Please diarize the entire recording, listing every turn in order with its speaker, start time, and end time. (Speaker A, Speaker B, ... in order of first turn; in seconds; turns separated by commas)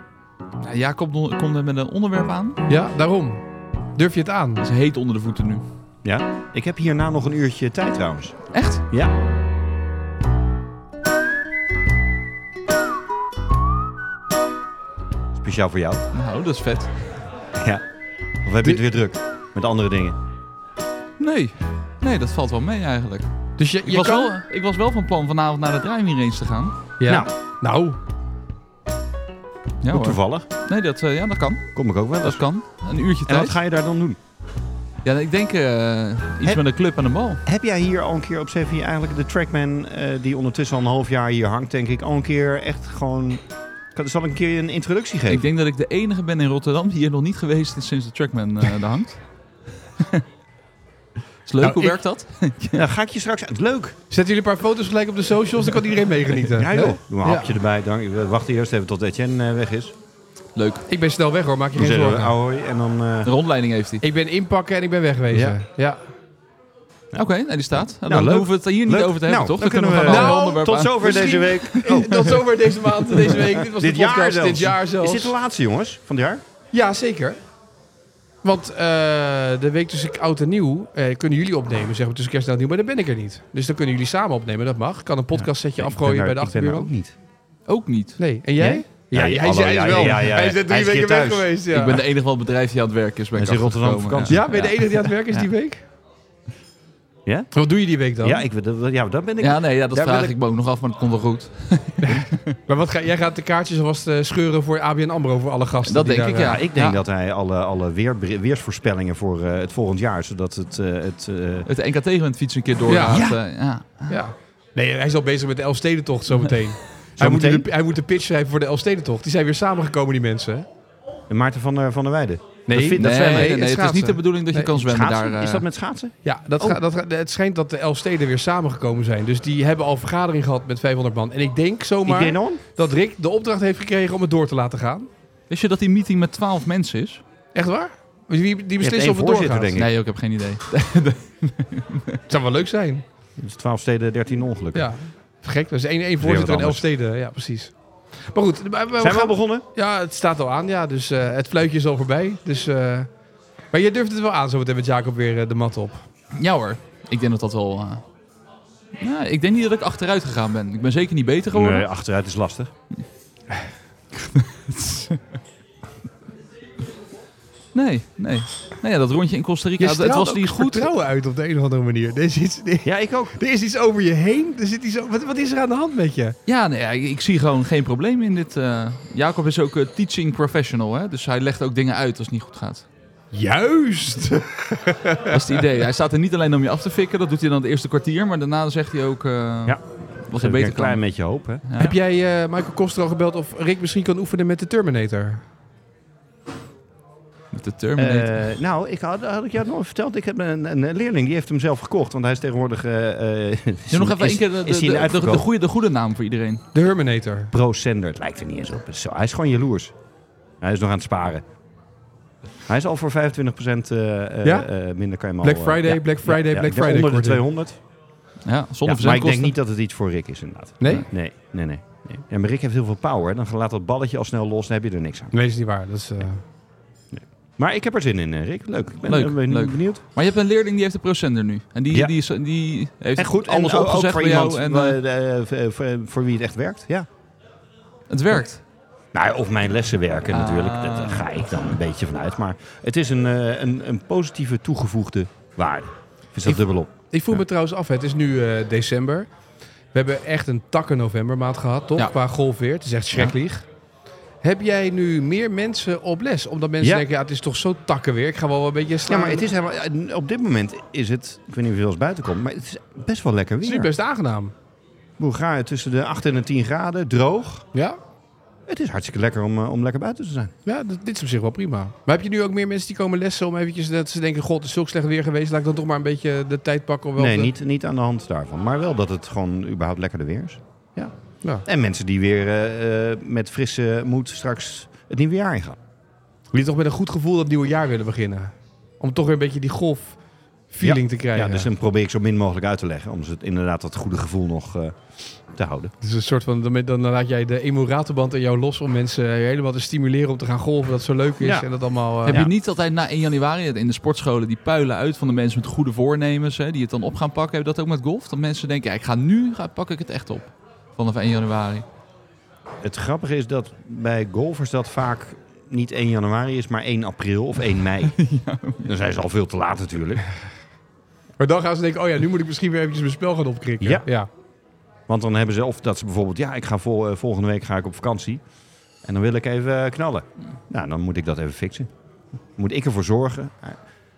Speaker A: 0.6-2.6, Speaker B: 2.7-3.4, Speaker B: 3.9-4.6, Speaker A: 4.6-5.6, Speaker C: 6.0-9.1, Speaker A: 8.5-8.8, Speaker C: 15.3-16.0, Speaker A: 16.1-17.2, Speaker C: 17.5-17.8, Speaker C: 18.4-20.2, Speaker A: 21.2-23.3, Speaker B: 23.6-24.3, Speaker A: 23.8-26.8, Speaker B: 27.0-28.0, Speaker A: 29.8-33.6, Speaker C: 29.9-30.4, Speaker C: 31.7-32.4, Speaker C: 33.3-34.2, Speaker A: 35.0-37.4, Speaker C: 37.5-43.4, Speaker C: 43.9-45.4, Speaker A: 45.3-49.2, Speaker A: 50.0-50.2, Speaker A: 51.5-52.9, Speaker B: 51.6-52.0, Speaker C: 52.7-54.0, Speaker B: 54.1-57.5, Speaker C: 56.5-59.9, Speaker A: 60.5-60.8, Speaker B: 60.9-62.3, Speaker C: 61.7-63.3, Speaker A: 63.2-64.0, Speaker B: 64.0-66.0, Speaker C: 65.3-65.6, Speaker A: 67.1-72.1, Speaker C: 68.0-72.4, Speaker B: 70.0-75.3, Speaker C: 73.2-76.4, Speaker B: 76.7-77.4, Speaker B: 78.4-86.9, Speaker C: 85.4-87.1, Speaker A: 87.7-88.2, Speaker B: 88.2-92.0, Speaker C: 88.6-91.5, Speaker A: 91.7-94.7, Speaker C: 93.3-94.8, Speaker B: 94.3-95.8, Speaker B: 97.5-98.4, Speaker C: 98.2-100.3, Speaker A: 99.4-102.5, Speaker B: 102.0-106.6, Speaker A: 105.8-107.0, Speaker C: 106.4-111.7, Speaker A: 111.7-114.2, Speaker B: 112.9-113.3, Speaker C: 113.1-113.4, Speaker B: 114.1-120.7, Speaker C: 117.2-117.7, Speaker C: 121.3-123.6, Speaker B: 122.7-124.7, Speaker A: 123.0-125.7, Speaker C: 124.8-126.8, Speaker B: 126.2-135.1, Speaker C: 132.1-132.6, Speaker A: 135.5-137.2, Speaker B: 137.5-139.8, Speaker C: 138.8-139.9, Speaker A: 139.7-142.2, Speaker B: 142.3-143.0, Speaker C: 143.4-144.9, Speaker B: 144.7-147.7, Speaker C: 146.2-146.8, Speaker B: 148.3-153.1, Speaker C: 149.0-149.6, Speaker B: 153.7-156.0, Speaker A: 156.3-158.0, Speaker A: 159.0-161.8, Speaker C: 161.5-162.7, Speaker A: 164.8-165.1, Speaker A: 167.7-170.9, Speaker B: 169.8-176.3, Speaker C: 172.8-173.3, Speaker A: 176.4-182.8, Speaker B: 183.3-185.6, Speaker A: 185.3-191.0, Speaker C: 189.7-191.6, Speaker A: 191.6-191.9, Speaker B: 191.8-195.4, Speaker A: 197.5-198.4, Speaker C: 197.9-205.4, Speaker A: 203.9-206.6, Speaker B: 206.7-207.5, Speaker C: 207.5-209.9, Speaker C: 210.6-211.4, Speaker C: 212.7-217.8, Speaker B: 215.4-217.4, Speaker A: 218.4-219.5, Speaker C: 218.8-225.3, Speaker B: 220.8-221.1, Speaker B: 225.3-226.4, Speaker C: 227.1-230.0, Speaker A: 229.1-235.0, Speaker C: 233.2-237.1, Speaker A: 238.1-238.6, Speaker C: 239.1-246.9, Speaker A: 240.3-241.3, Speaker B: 246.4-249.3, Speaker B: 249.9-253.7, Speaker B: 254.4-259.5, Speaker C: 256.8-257.1, Speaker C: 259.1-263.9, Speaker B: 263.6-264.5, Speaker C: 265.2-267.7, Speaker C: 268.7-270.5, Speaker B: 270.6-277.5, Speaker C: 277.2-281.1, Speaker C: 281.6-285.8, Speaker B: 286.5-290.2, Speaker B: 290.7-291.7, Speaker C: 290.8-295.9, Speaker B: 296.0-302.4, Speaker C: 301.4-301.7, Speaker C: 302.2-302.5, Speaker A: 302.3-311.9, Speaker C: 312.8-318.1, Speaker A: 318.1-318.9, Speaker C: 318.8-320.2, Speaker B: 321.4-324.3, Speaker C: 325.1-328.4, Speaker C: 329.0-331.9, Speaker C: 332.6-333.8